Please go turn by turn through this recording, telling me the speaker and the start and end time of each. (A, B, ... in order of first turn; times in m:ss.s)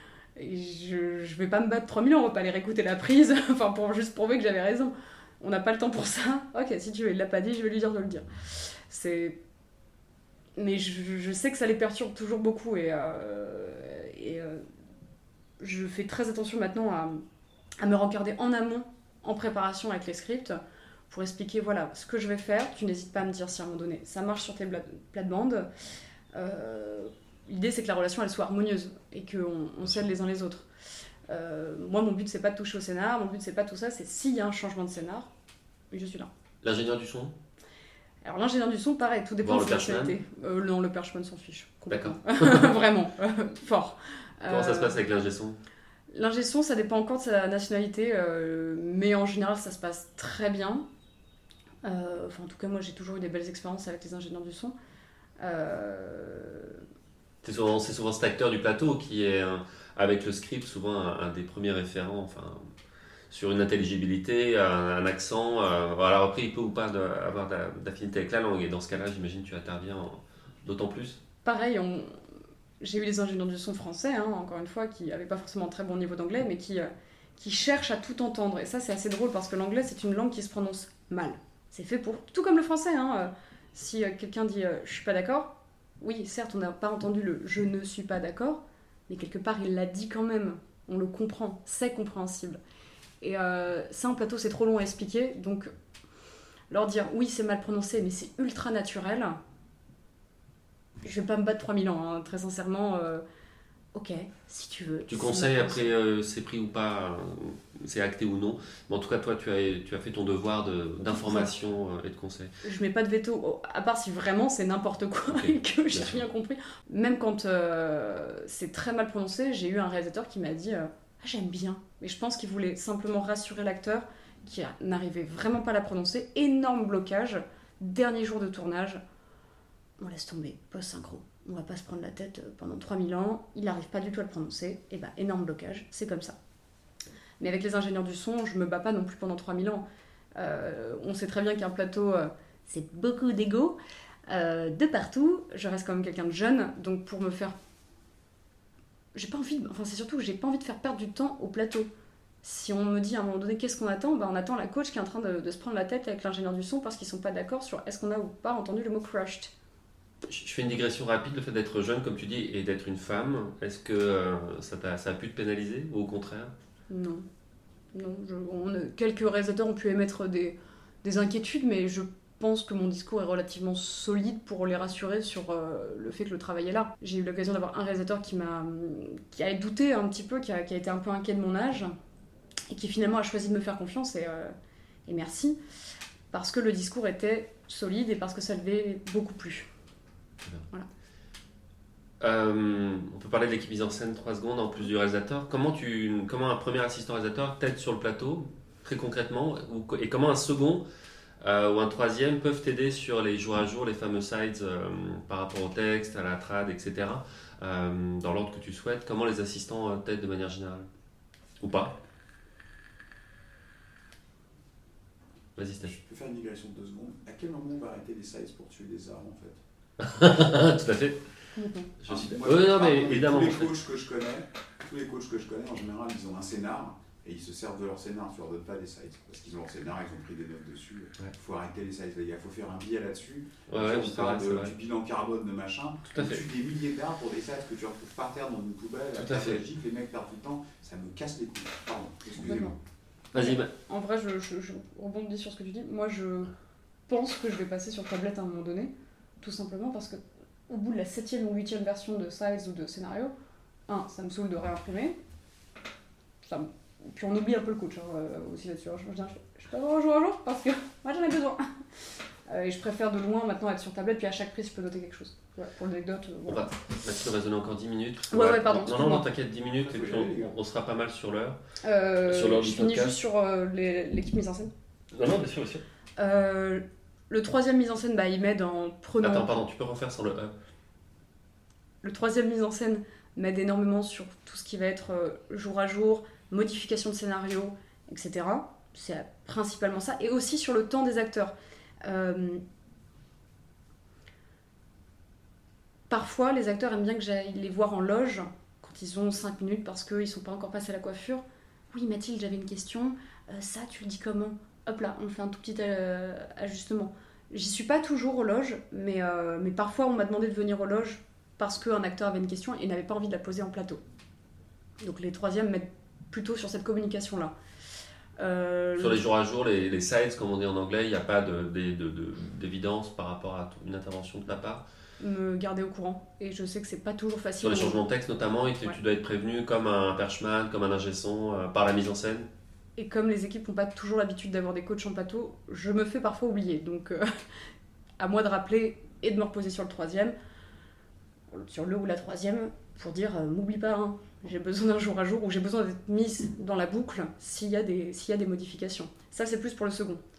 0:00.4-0:09.4 A
0:10.6-0:14.6 A
0:15.6-0:17.2 A
0:17.8-0:20.6 A
0:21.1-0:25.7 A
0:26.3-0:30.7 A
0:31.3-0:35.3 A
0:35.9-0:36.3 A
0:36.6-0:37.3 B
0:38.2-0:45.0 A
0:39.4-0:40.2 B
0:41.9-0:42.8 B
0:44.5-0:45.6 B
0:46.1-0:50.8 A
0:51.8-0:54.7 A
0:55.4-0:56.8 A
0:57.4-1:02.6 B
1:03.3-1:11.2 B
1:11.4-1:12.1 A
1:12.8-1:32.6 A
1:33.2-1:35.7 A
1:36.7-1:39.4 A
1:41.0-1:43.2 A
1:43.9-1:45.9 A
1:45.1-1:52.6 B
1:51.0-1:51.5 A
1:52.6-2:09.0 A
1:55.3-1:56.2 B
2:10.0-2:16.4 A
2:17.4-2:19.8 A
2:20.4-2:23.8 A
2:24.3-2:27.5 A
2:29.1-2:31.9 A
2:32.4-2:39.5 A
2:40.2-2:46.5 B
2:46.9-2:47.2 A
2:47.9-3:01.9 A
3:02.7-3:04.5 A
3:05.0-3:05.6 A
3:06.3-3:09.7 A
3:12.2-3:20.8 B
3:21.4-3:30.9 B
3:31.6-3:32.0 B
3:35.6-3:35.9 B
3:35.8-3:39.6 C
3:40.0-3:41.2 B
3:41.5-3:41.9 A
3:42.0-3:43.7 B
3:42.1-4:02.7 C
3:53.7-3:54.7 B
3:56.1-3:56.4 B
3:59.2-3:59.6 B
4:02.4-4:02.8 A
4:03.3-4:03.7 B
4:03.4-4:06.5 A
4:07.1-4:13.3 A
4:13.9-4:15.2 A
4:16.4-4:21.7 A
4:22.5-4:26.7 A
4:26.5-4:31.6 B
4:28.3-4:29.3 A
4:29.8-4:30.6 C
4:31.8-4:34.7 A
4:32.3-4:33.2 B
4:35.1-4:35.8 B
4:36.2-4:39.5 A
4:39.2-4:40.5 B
4:42.0-4:51.5 A
4:52.0-4:52.6 A
4:56.1-5:14.0 A
5:15.0-5:17.5 A
5:18.4-5:19.2 A
5:19.0-5:24.8 B
5:25.2-5:28.0 A
5:27.6-5:32.5 B
5:33.0-5:37.3 A
5:38.2-5:40.3 A
5:41.5-5:50.2 A